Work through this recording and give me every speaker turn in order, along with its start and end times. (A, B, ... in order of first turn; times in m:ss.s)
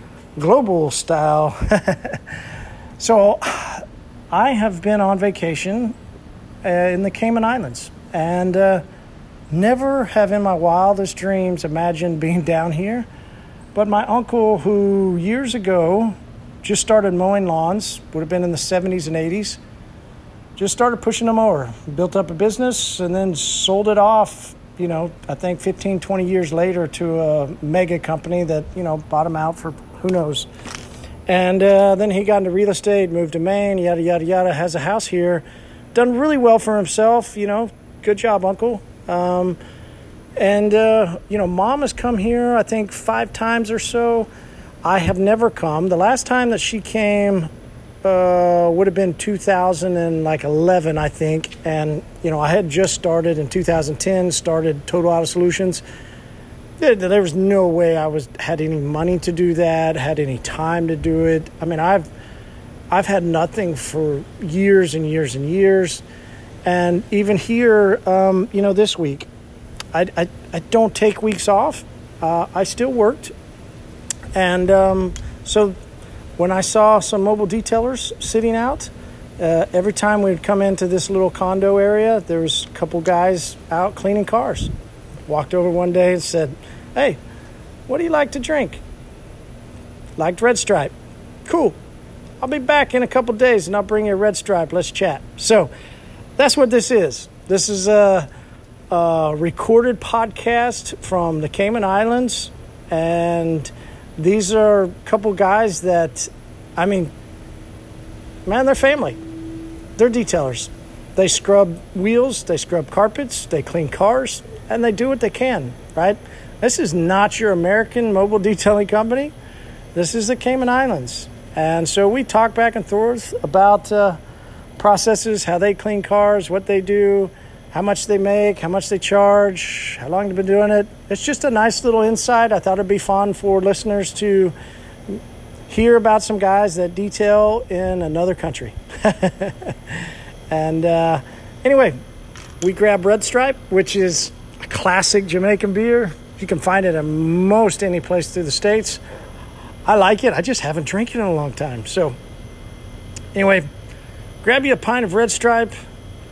0:00.4-0:02.2 A
0:03.0-0:05.9 A
0:06.6-0:08.8 A
0:09.5-0:13.1 A
0:13.7-0:19.6 A
0:20.6-0:30.5 A
0:31.3-0:39.6 A
0:40.4-0:44.3 A
0:44.8-0:47.5 A
0:48.0-0:55.8 A
0:56.8-1:02.1 A
1:02.9-1:06.0 A
1:06.6-1:09.3 A
1:09.9-1:13.3 A
1:14.3-1:15.8 A
1:16.4-1:24.7 A
1:25.3-1:27.2 A
1:27.9-1:28.8 A
1:30.2-1:30.9 A
1:31.4-1:31.8 A
1:32.4-1:35.7 A
1:36.4-1:38.3 A
1:38.9-1:47.1 A
1:48.4-1:49.2 A
1:50.0-1:59.3 A
1:59.9-2:04.2 A
2:04.8-2:14.5 A
2:15.1-2:22.0 A
2:22.6-2:29.0 A
2:29.8-2:32.2 A
2:33.3-2:33.7 A
2:34.4-2:35.7 A